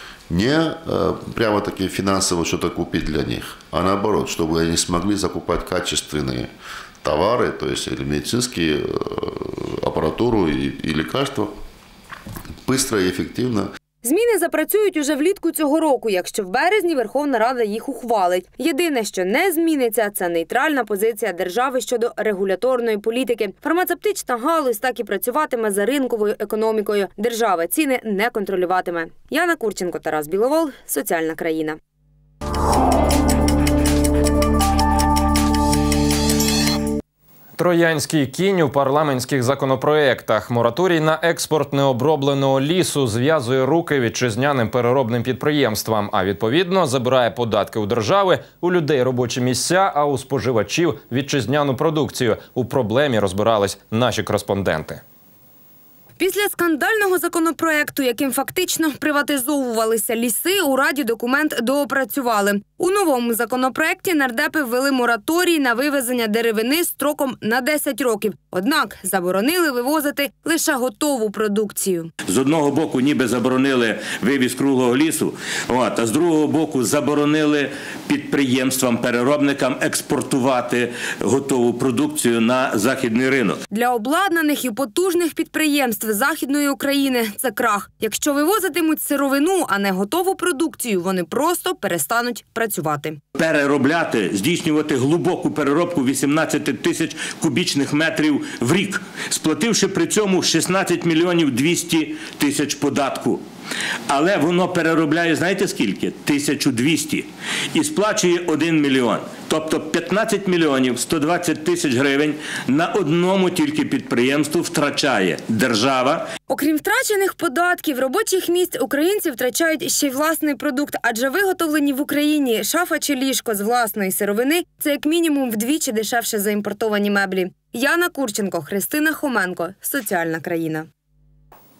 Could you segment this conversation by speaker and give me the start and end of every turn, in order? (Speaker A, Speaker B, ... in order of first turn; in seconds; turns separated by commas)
Speaker A: 0.3-6.5, Speaker A: 7.0-11.5, Speaker A: 12.7-13.7, Speaker B: 14.0-31.8, Speaker C: 37.6-55.0, Speaker B: 56.2-72.1, Speaker D: 72.2-83.6, Speaker B: 83.7-93.2, Speaker D: 93.3-103.4, Speaker D: 104.1-116.2, Speaker B: 116.5-130.9